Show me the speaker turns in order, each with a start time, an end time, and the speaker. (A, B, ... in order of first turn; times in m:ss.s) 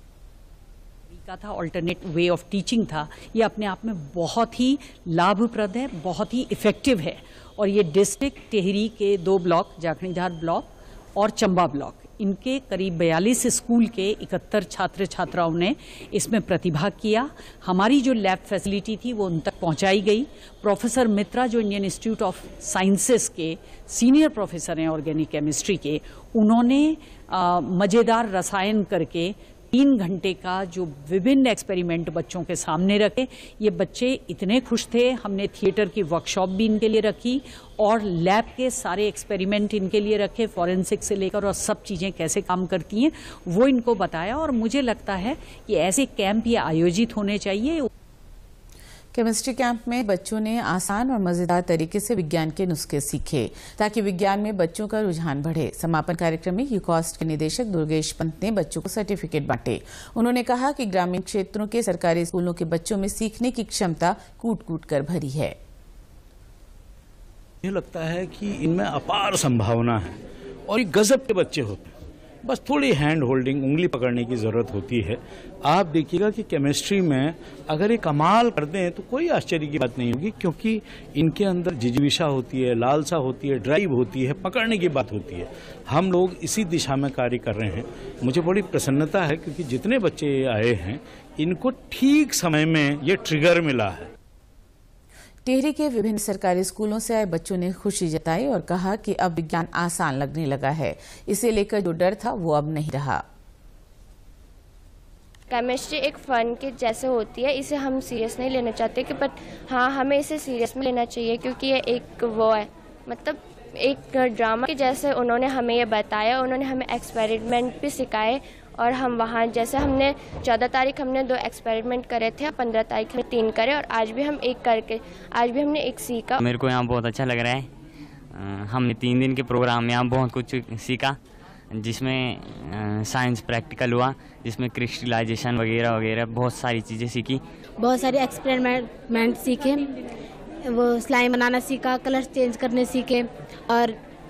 0:01.1-0:47.9 A
0:49.1-1:05.6 B
1:07.6-1:10.2 C
1:10.7-1:11.9 C
1:12.4-1:34.1 C
1:35.4-1:43.2 B
1:45.5-2:06.4 D
2:06.4-2:07.7 E
2:08.3-2:11.2 E
2:11.7-2:17.4 E
2:17.8-2:19.9 F
2:20.6-2:24.0 F